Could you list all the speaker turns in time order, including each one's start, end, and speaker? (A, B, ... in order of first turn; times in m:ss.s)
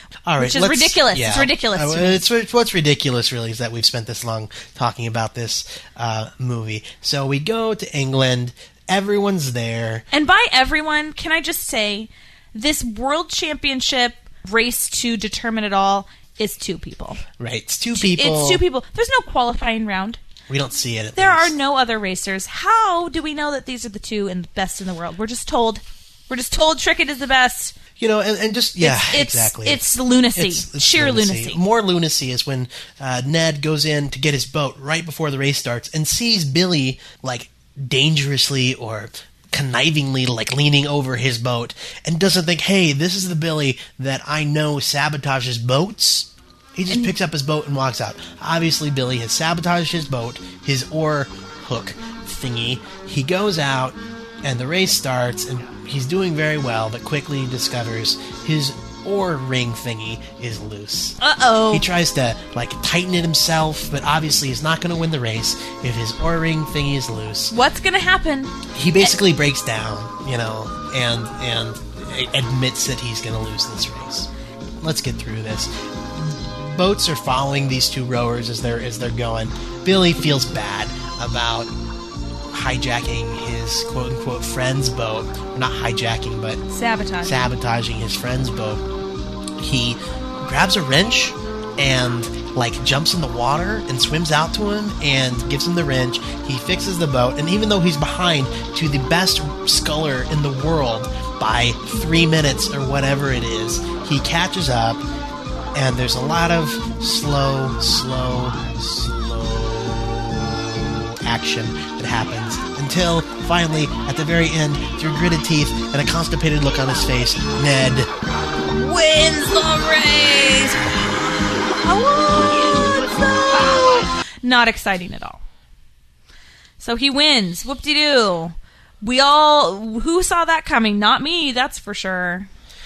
0:00.2-0:10.1 A
0:00.4-0:02.2 B
0:10.1-0:17.2 B
0:17.4-0:18.6 A
0:17.9-0:20.2 B
0:20.5-0:21.5 A
0:21.2-0:27.7 B
0:28.0-1:01.2 A
0:28.8-0:31.6 B
0:46.9-0:47.2 B
1:01.2-1:01.8 B
1:01.7-1:07.5 A
1:07.5-1:09.2 B
1:08.7-1:14.3 A
1:14.8-1:21.7 A
1:22.5-1:26.6 A
1:26.7-1:27.4 B
1:27.2-1:28.8 A
1:29.6-1:45.0 A
1:45.7-1:58.1 A
1:58.7-2:05.4 B
2:06.8-2:12.5 B